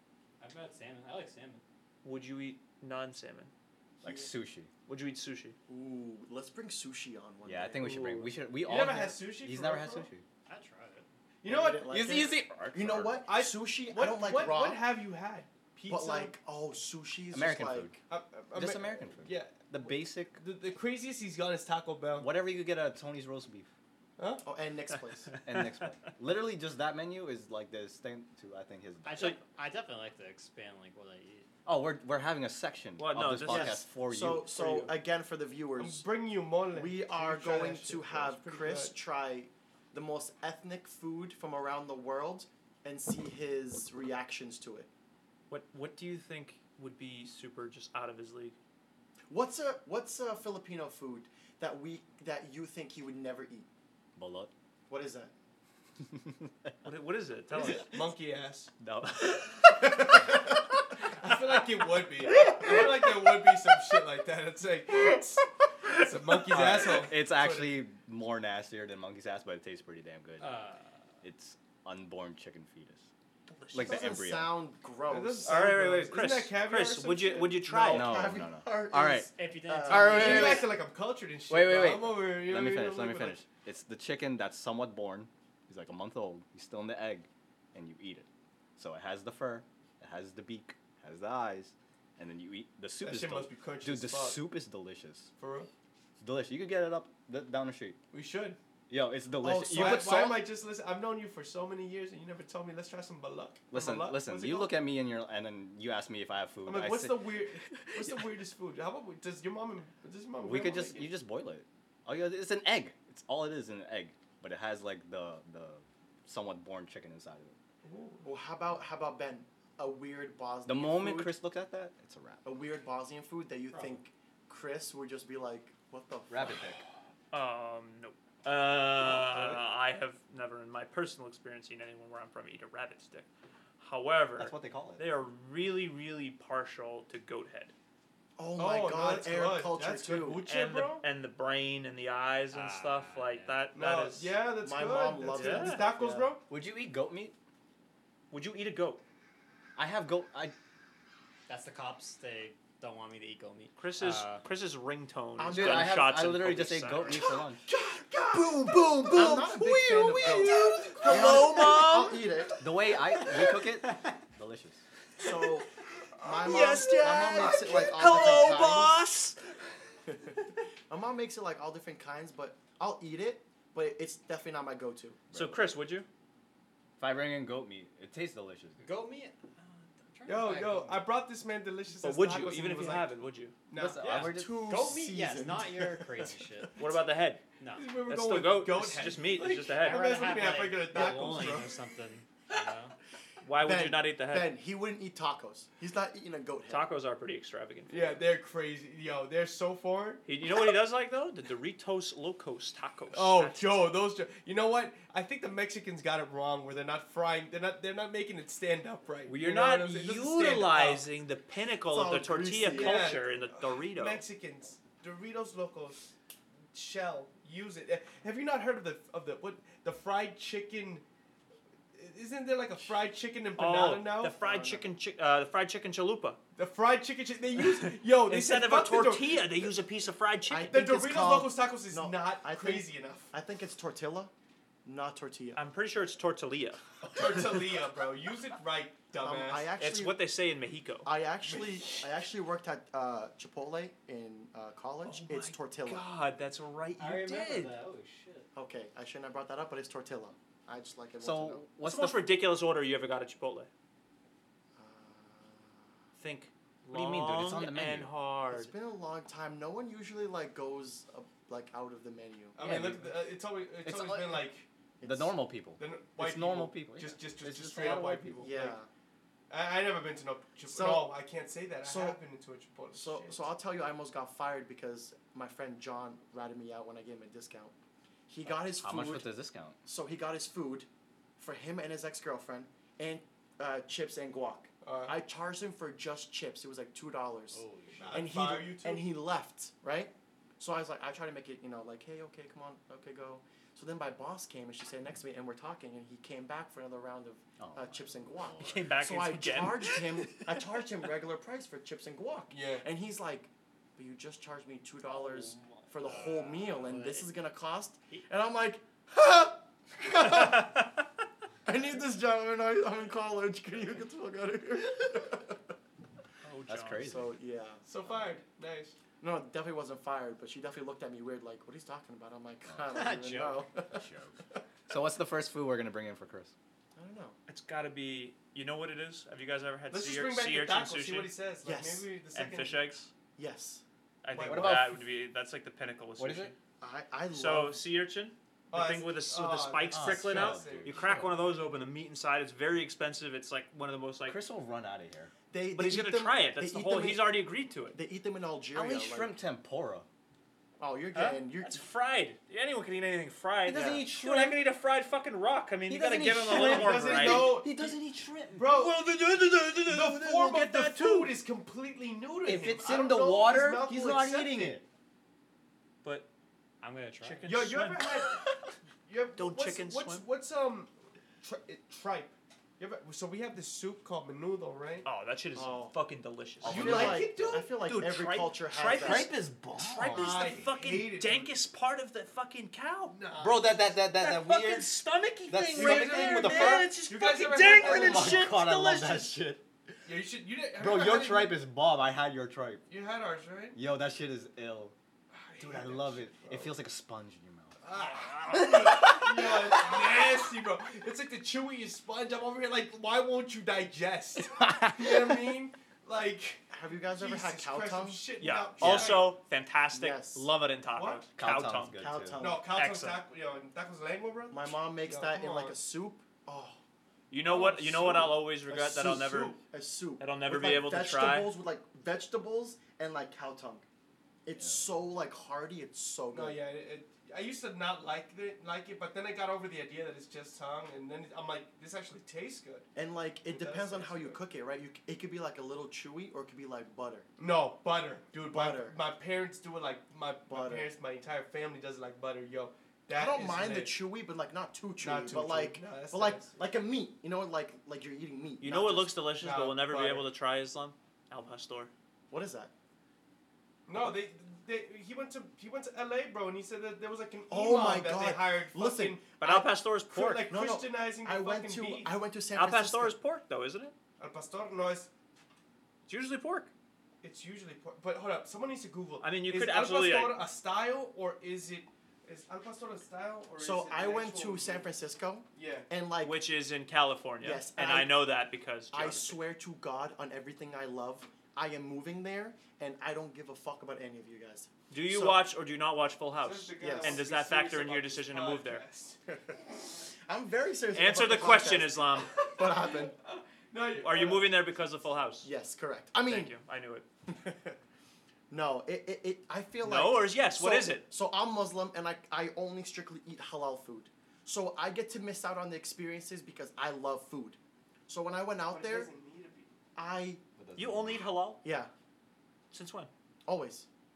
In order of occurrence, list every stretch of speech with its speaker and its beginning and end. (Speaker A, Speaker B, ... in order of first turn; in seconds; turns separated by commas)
Speaker A: 0.4-1.6, Speaker B: 2.0-3.5, Speaker C: 4.0-4.3, Speaker D: 4.0-4.7, Speaker B: 4.9-5.5, Speaker C: 5.7-8.2, Speaker D: 7.5-10.2, Speaker B: 7.9-8.3, Speaker E: 8.6-10.1, Speaker A: 10.4-11.1, Speaker E: 11.4-11.9, Speaker C: 11.4-14.8, Speaker D: 11.9-13.2, Speaker E: 13.2-16.3, Speaker C: 15.9-18.0, Speaker D: 17.3-18.0, Speaker E: 18.1-22.3, Speaker D: 18.5-20.4, Speaker D: 22.2-23.7, Speaker E: 24.2-24.4, Speaker C: 24.4-25.3, Speaker B: 25.3-25.7, Speaker D: 25.4-29.3, Speaker A: 29.0-31.5, Speaker D: 31.6-34.9, Speaker B: 33.0-33.8, Speaker C: 33.5-36.0, Speaker E: 35.8-39.0, Speaker C: 36.7-44.9, Speaker B: 45.5-48.5, Speaker C: 49.3-53.7, Speaker D: 54.1-54.5, Speaker C: 54.9-55.3, Speaker D: 56.1-56.7, Speaker B: 56.8-57.9, Speaker E: 57.5-58.7, Speaker D: 58.8-60.4, Speaker E: 61.2-67.8, Speaker D: 62.4-62.7, Speaker D: 66.5-70.6, Speaker A: 70.4-71.0, Speaker D: 71.2-73.1, Speaker B: 73.5-74.1, Speaker D: 73.7-74.5, Speaker C: 73.8-75.5, Speaker E: 75.1-77.9, Speaker B: 75.5-78.2, Speaker C: 77.7-80.7, Speaker D: 77.9-79.3, Speaker A: 79.3-80.6, Speaker D: 79.9-80.8, Speaker E: 80.0-83.4, Speaker D: 81.5-95.3, Speaker E: 93.0-94.4, Speaker E: 95.4-95.7, Speaker D: 96.2-98.0, Speaker E: 98.1-98.6, Speaker D: 98.9-100.5, Speaker E: 99.4-104.8, Speaker C: 99.4-100.1, Speaker D: 103.7-108.4, Speaker E: 106.6-111.1, Speaker D: 110.4-117.5, Speaker E: 117.8-118.3, Speaker C: 118.2-121.3, Speaker D: 120.7-122.4, Speaker C: 122.4-126.6, Speaker A: 123.7-124.0, Speaker D: 126.3-126.8, Speaker B: 127.3-133.3, Speaker B: 133.8-137.7, Speaker D: 134.4-135.2, Speaker C: 138.4-140.4, Speaker E: 138.6-141.1, Speaker B: 140.4-144.3, Speaker A: 142.5-143.6, Speaker E: 143.7-146.4, Speaker C: 144.6-146.3, Speaker B: 145.3-145.8, Speaker D: 146.5-147.3, Speaker B: 148.3-149.0, Speaker D: 149.8-150.6, Speaker A: 151.5-154.4, Speaker B: 153.8-162.3, Speaker C: 155.4-156.0, Speaker D: 155.5-157.6, Speaker C: 159.1-162.6, Speaker D: 161.1-161.8, Speaker D: 162.6-164.8, Speaker C: 165.2-165.7, Speaker B: 166.2-169.4, Speaker C: 166.2-169.0, Speaker C: 170.1-170.3, Speaker C: 170.9-175.2, Speaker D: 175.3-175.6, Speaker B: 175.3-176.1, Speaker D: 177.0-178.8, Speaker A: 178.8-181.1, Speaker E: 180.3-184.3, Speaker B: 182.0-183.6, Speaker D: 183.7-184.6, Speaker A: 184.0-186.8, Speaker C: 184.1-186.3, Speaker B: 186.8-187.4, Speaker A: 187.6-187.9, Speaker E: 187.7-191.7, Speaker B: 188.1-190.1, Speaker A: 189.8-192.9, Speaker C: 190.9-191.7, Speaker B: 193.4-194.6, Speaker C: 193.6-196.9, Speaker B: 196.7-198.2, Speaker E: 197.9-200.2, Speaker B: 200.3-203.8, Speaker E: 203.1-211.1, Speaker B: 209.3-214.2, Speaker C: 211.9-213.2, Speaker E: 212.7-216.1, Speaker E: 216.7-221.0, Speaker E: 221.9-224.4, Speaker B: 223.6-226.4, Speaker C: 224.4-224.9, Speaker E: 226.6-229.7, Speaker B: 228.2-230.8, Speaker C: 230.5-234.3, Speaker E: 230.7-233.3, Speaker C: 234.8-235.6, Speaker B: 235.6-236.8, Speaker E: 237.1-239.7, Speaker C: 239.2-240.2, Speaker B: 239.8-241.1, Speaker C: 241.1-246.0, Speaker E: 241.4-242.1, Speaker B: 245.1-247.7, Speaker A: 247.0-248.5, Speaker C: 248.5-251.6, Speaker D: 251.2-252.2, Speaker B: 251.8-253.7, Speaker C: 254.7-255.9, Speaker B: 256.2-258.7, Speaker D: 256.9-258.1, Speaker C: 258.5-262.7, Speaker E: 262.6-264.6, Speaker D: 262.6-264.5, Speaker C: 265.0-265.3, Speaker D: 265.0-268.4, Speaker E: 265.8-268.8, Speaker C: 268.4-268.9, Speaker E: 269.5-273.5, Speaker C: 270.7-271.1, Speaker C: 271.8-272.2, Speaker C: 272.9-277.7, Speaker C: 278.3-279.3, Speaker D: 278.4-279.8, Speaker C: 279.8-280.9, Speaker C: 281.4-310.8, Speaker E: 284.8-285.1, Speaker A: 287.6-288.1, Speaker E: 288.0-289.1, Speaker D: 297.6-298.8, Speaker B: 298.6-300.2, Speaker E: 302.5-302.8, Speaker A: 305.1-307.3, Speaker B: 310.2-310.9, Speaker C: 311.6-315.7, Speaker B: 316.4-317.2, Speaker D: 316.7-317.3, Speaker C: 317.0-317.8, Speaker E: 317.8-318.9, Speaker C: 319.2-324.0, Speaker A: 322.9-323.6, Speaker D: 323.9-326.5, Speaker C: 326.9-327.4, Speaker B: 327.5-331.3, Speaker E: 329.9-332.9, Speaker C: 331.6-332.1, Speaker B: 332.3-333.1, Speaker C: 333.4-333.8, Speaker B: 334.2-336.6, Speaker E: 334.3-334.9, Speaker D: 334.4-335.0, Speaker D: 336.2-336.5, Speaker C: 336.8-337.8, Speaker B: 337.3-344.4, Speaker E: 338.7-341.2, Speaker D: 339.9-341.6, Speaker D: 344.3-345.3, Speaker C: 345.5-349.3, Speaker B: 345.8-348.0, Speaker D: 348.7-350.1, Speaker C: 350.8-351.8, Speaker B: 351.1-357.6, Speaker D: 353.6-354.6, Speaker D: 355.9-358.9, Speaker E: 356.4-357.9, Speaker E: 358.6-359.0, Speaker B: 358.7-361.3, Speaker E: 359.9-364.7, Speaker D: 362.4-364.8, Speaker C: 363.9-364.8, Speaker B: 366.0-366.3, Speaker A: 366.8-367.7, Speaker B: 367.2-368.2, Speaker E: 367.4-368.4, Speaker E: 369.1-375.1, Speaker B: 369.4-370.2, Speaker B: 375.1-383.2, Speaker C: 375.6-375.9, Speaker D: 376.6-377.6, Speaker E: 376.6-377.7, Speaker C: 376.6-379.3, Speaker D: 378.9-380.3, Speaker E: 379.9-381.5, Speaker E: 383.1-383.8, Speaker D: 383.4-384.9, Speaker B: 384.1-389.4, Speaker D: 385.5-387.0, Speaker E: 385.7-388.5, Speaker D: 387.6-389.6, Speaker E: 390.1-391.6, Speaker D: 390.7-392.8, Speaker E: 392.9-393.8, Speaker D: 393.7-394.9, Speaker E: 395.3-396.8, Speaker D: 395.6-397.7, Speaker E: 397.8-409.3, Speaker B: 398.0-398.7, Speaker D: 398.5-399.9, Speaker D: 404.6-405.3, Speaker C: 406.7-408.2, Speaker B: 408.4-412.0, Speaker D: 408.8-409.2, Speaker C: 409.9-410.5, Speaker E: 410.9-411.3, Speaker D: 411.4-412.4, Speaker C: 412.0-412.7, Speaker E: 412.4-415.8, Speaker B: 412.7-413.2, Speaker C: 414.5-416.8, Speaker B: 417.3-419.6, Speaker E: 417.4-419.6, Speaker C: 419.6-423.8, Speaker B: 420.2-421.5, Speaker C: 424.4-426.6, Speaker E: 426.3-432.9, Speaker C: 432.9-437.3, Speaker E: 433.5-434.4, Speaker E: 437.4-443.9, Speaker C: 438.5-439.0, Speaker C: 440.5-440.9, Speaker C: 443.1-449.1, Speaker E: 445.0-446.6, Speaker B: 448.6-451.9, Speaker E: 449.4-450.3, Speaker C: 452.3-452.7, Speaker E: 453.9-459.3, Speaker C: 457.5-459.7, Speaker B: 459.4-460.5, Speaker E: 460.1-462.1, Speaker C: 460.5-463.1, Speaker B: 462.5-463.9, Speaker E: 464.2-465.1, Speaker B: 466.1-466.7, Speaker E: 467.2-474.9, Speaker B: 469.2-470.4, Speaker C: 473.6-476.4, Speaker E: 475.6-475.9, Speaker B: 476.2-479.4, Speaker C: 477.4-478.2, Speaker C: 478.9-485.4, Speaker B: 484.9-488.8, Speaker E: 486.4-489.2, Speaker C: 486.8-487.2, Speaker C: 489.3-489.6, Speaker C: 490.3-493.1, Speaker B: 490.9-492.4, Speaker E: 492.4-494.6, Speaker B: 493.9-495.5, Speaker C: 495.4-496.5, Speaker B: 496.2-497.1, Speaker C: 497.3-497.8, Speaker C: 498.5-509.1, Speaker B: 499.8-501.1, Speaker E: 508.7-509.7, Speaker C: 509.9-510.4, Speaker D: 510.6-511.3, Speaker B: 510.8-511.6, Speaker C: 511.6-511.9, Speaker B: 512.7-513.1, Speaker C: 513.5-513.9